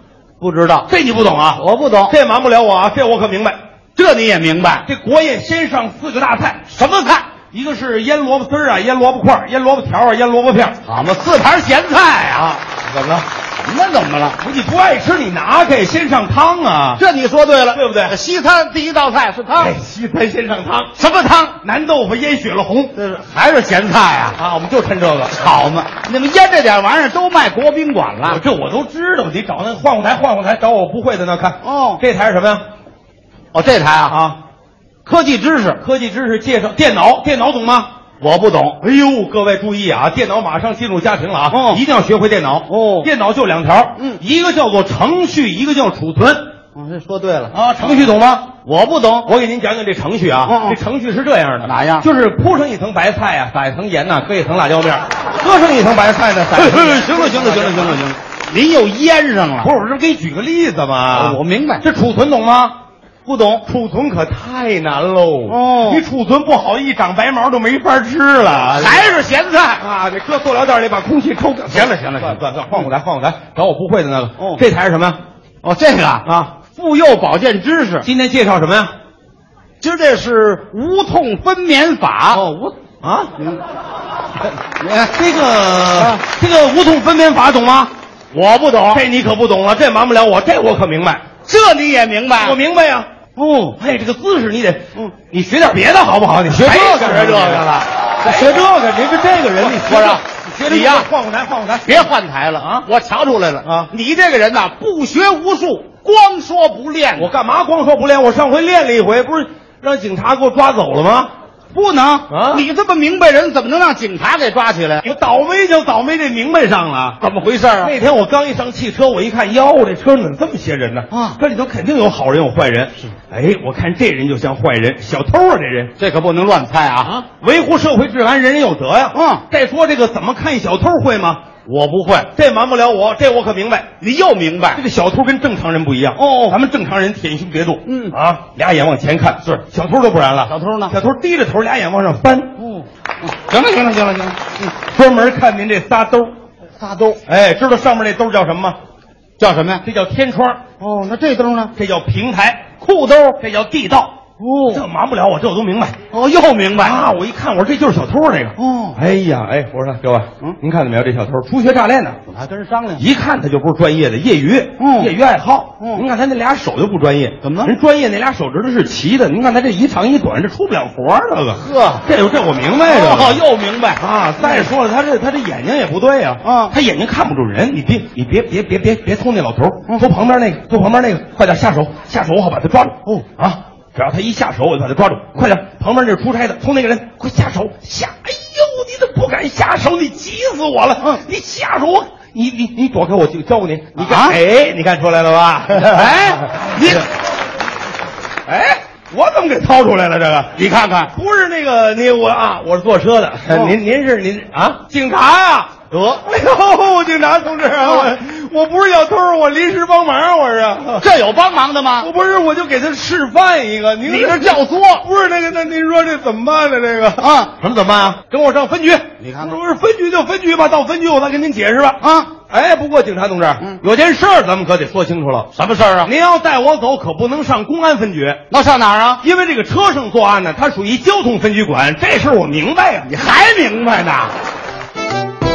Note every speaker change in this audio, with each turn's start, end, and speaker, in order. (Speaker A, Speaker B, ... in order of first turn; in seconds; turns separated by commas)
Speaker A: 0.4-0.9, Speaker B: 0.9-3.5, Speaker A: 1.5-2.1, Speaker A: 4.0-4.8, Speaker B: 4.8-6.6, Speaker A: 6.7-7.3, Speaker B: 7.5-10.8, Speaker A: 10.8-12.6, Speaker B: 12.7-13.2, Speaker A: 13.6-14.4, Speaker B: 14.4-17.0, Speaker A: 16.9-19.7, Speaker B: 17.7-18.1, Speaker B: 19.6-20.9, Speaker A: 20.9-21.6, Speaker B: 21.6-22.9, Speaker A: 22.9-24.4, Speaker B: 24.4-25.5, Speaker A: 25.4-28.4, Speaker B: 28.2-32.6, Speaker A: 31.6-32.0, Speaker A: 33.5-34.2, Speaker B: 34.1-34.4, Speaker A: 35.0-35.8, Speaker B: 35.8-37.9, Speaker A: 38.2-38.8, Speaker B: 38.8-46.5, Speaker A: 41.5-41.8, Speaker A: 42.7-43.1, Speaker A: 46.7-48.0, Speaker B: 47.5-48.5, Speaker A: 48.6-49.3, Speaker B: 49.2-58.0, Speaker A: 50.5-50.8, Speaker A: 51.6-52.1, Speaker A: 56.5-59.7, Speaker B: 59.6-62.8, Speaker A: 61.1-61.8, Speaker A: 63.2-63.6, Speaker B: 63.6-69.2, Speaker A: 65.5-66.0, Speaker A: 68.7-69.8, Speaker B: 69.8-75.2, Speaker A: 71.7-72.4, Speaker A: 74.4-74.6, Speaker A: 75.6-78.1, Speaker B: 76.2-76.5, Speaker B: 78.0-78.9, Speaker A: 79.8-82.5, Speaker B: 82.3-83.3, Speaker A: 84.7-85.2, Speaker B: 85.1-87.9, Speaker A: 88.3-89.0, Speaker B: 88.9-91.2, Speaker A: 91.4-92.6, Speaker B: 92.4-93.1, Speaker A: 93.3-93.8, Speaker B: 93.8-102.9, Speaker A: 96.5-98.5, Speaker A: 99.6-101.1, Speaker A: 101.8-107.3, Speaker B: 103.6-103.9, Speaker B: 107.2-111.3, Speaker A: 111.7-115.1, Speaker B: 112.3-112.6, Speaker B: 115.0-117.2, Speaker A: 117.2-117.9, Speaker B: 117.8-126.0, Speaker A: 121.1-121.4, Speaker A: 126.0-127.2, Speaker B: 127.0-131.4, Speaker A: 129.1-129.4, Speaker A: 131.7-132.3, Speaker B: 132.3-133.9, Speaker A: 134.0-134.8, Speaker B: 134.7-142.5, Speaker A: 136.2-136.5, Speaker A: 137.8-138.1, Speaker A: 140.4-140.9, Speaker A: 142.6-144.7, Speaker B: 144.8-146.3, Speaker A: 146.8-147.2, Speaker B: 147.2-148.8, Speaker A: 149.4-149.8, Speaker B: 149.8-150.6, Speaker A: 150.8-151.7, Speaker B: 151.7-152.6, Speaker A: 152.8-153.4, Speaker B: 153.4-154.2, Speaker A: 154.4-154.8, Speaker B: 154.7-155.9, Speaker A: 156.1-157.1, Speaker B: 156.8-162.2, Speaker A: 158.6-159.0, Speaker A: 162.2-163.0, Speaker B: 163.0-173.4, Speaker A: 164.8-165.1, Speaker A: 167.4-167.7, Speaker A: 171.5-172.1, Speaker A: 172.8-174.6, Speaker B: 173.9-197.0, Speaker A: 176.4-176.8, Speaker A: 194.0-194.4, Speaker A: 195.7-197.1, Speaker B: 198.5-200.6, Speaker A: 200.5-201.1, Speaker B: 201.1-205.7, Speaker A: 203.5-203.7, Speaker A: 205.9-206.2, Speaker B: 206.2-211.1, Speaker A: 207.8-208.1, Speaker A: 211.0-212.1, Speaker B: 212.0-225.5, Speaker A: 214.1-215.1, Speaker A: 217.2-217.5, Speaker A: 219.2-219.6, Speaker A: 222.0-222.3, Speaker A: 225.5-226.1, Speaker B: 226.0-228.4, Speaker A: 228.5-229.2, Speaker B: 229.2-233.1, Speaker A: 233.0-234.3